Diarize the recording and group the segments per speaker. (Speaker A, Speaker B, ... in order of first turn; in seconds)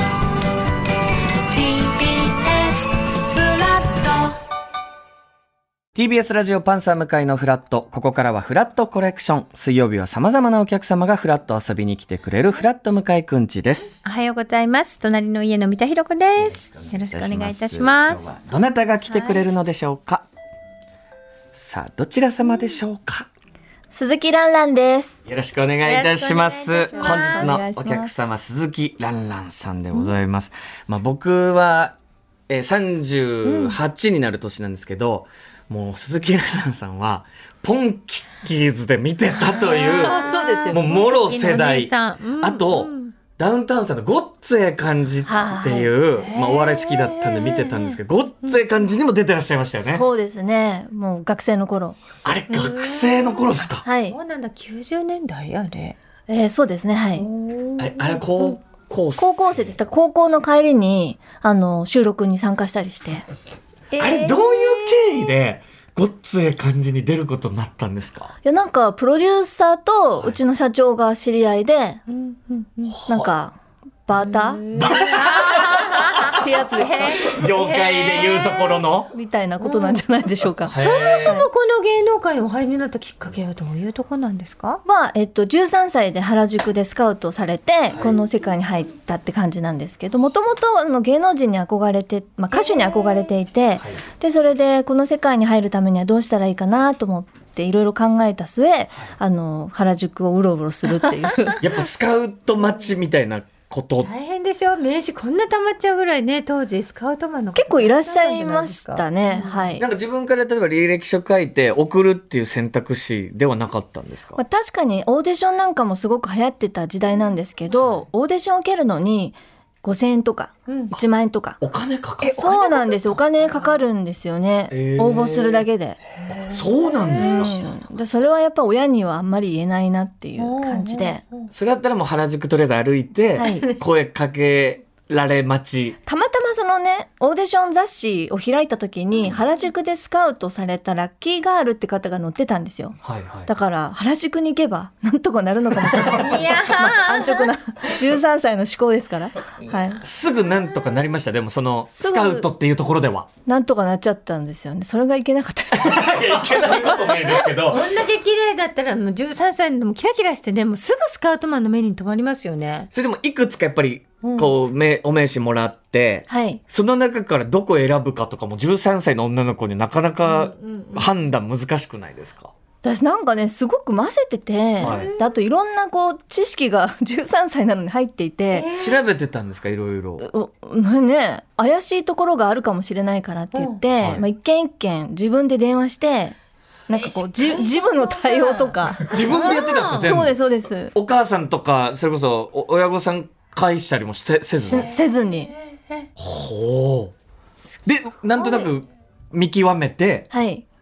Speaker A: 1.5-4.3, 14.0-18.3, 19.1-19.4, 25.8-27.6, 33.4-33.8, 39.5-43.1, 46.2-48.6, 52.5-55.9, 57.2-58.4, 63.9-65.1, 72.1-73.0, 74.2-78.8, 79.6-80.0, 80.7-84.8, 92.6-92.9, 104.0-109.7, 122.2-123.8, 126.2-127.5, 130.4-131.5, 146.1-147.9, 149.6-150.0, 156.7-162.9, 164.2-164.5, 170.2-171.1, 174.8-175.3, 178.5-179.0, 186.9-190.1, 194.7-195.0
Speaker B: 5.9-14.0, 16.4-20.2, 21.5-23.3, 25.2-31.9, 32.5-50.0, 52.2-53.9, 57.8-59.8, 64.0-68.3, 72.8-73.3, 74.7-76.4, 77.0-79.1, 80.7-81.4, 101.6-104.1, 109.8-114.4, 117.7-118.0, 121.6-122.5, 124.7-125.6, 126.3-127.6, 131.5-136.0, 143.0-143.5, 145.8-146.2, 150.0-153.3, 155.7-157.9, 162.9-172.5, 174.8-175.1, 178.8-180.3, 184.0-184.2, 189.1-190.4, 190.9-194.9, 196.2-197.1, 197.8-200.3
Speaker C: 23.9-25.2, 26.9-28.1, 39.7-40.8, 45.2-45.9, 49.7-52.0, 53.8-54.2, 56.3-57.3, 59.2-63.2, 68.4-72.0, 73.0-73.5, 74.1-74.6, 76.2-77.4, 79.1-81.5, 84.8-101.6, 107.5-109.8, 114.3-121.6, 122.3-126.0, 127.1-131.2, 133.3-133.7, 136.1-150.0, 151.9-152.5, 153.4-157.4, 166.3-166.6, 172.8-178.7, 180.2-186.3, 186.9-189.2, 189.9-190.9, 194.7-195.5, 200.3-200.6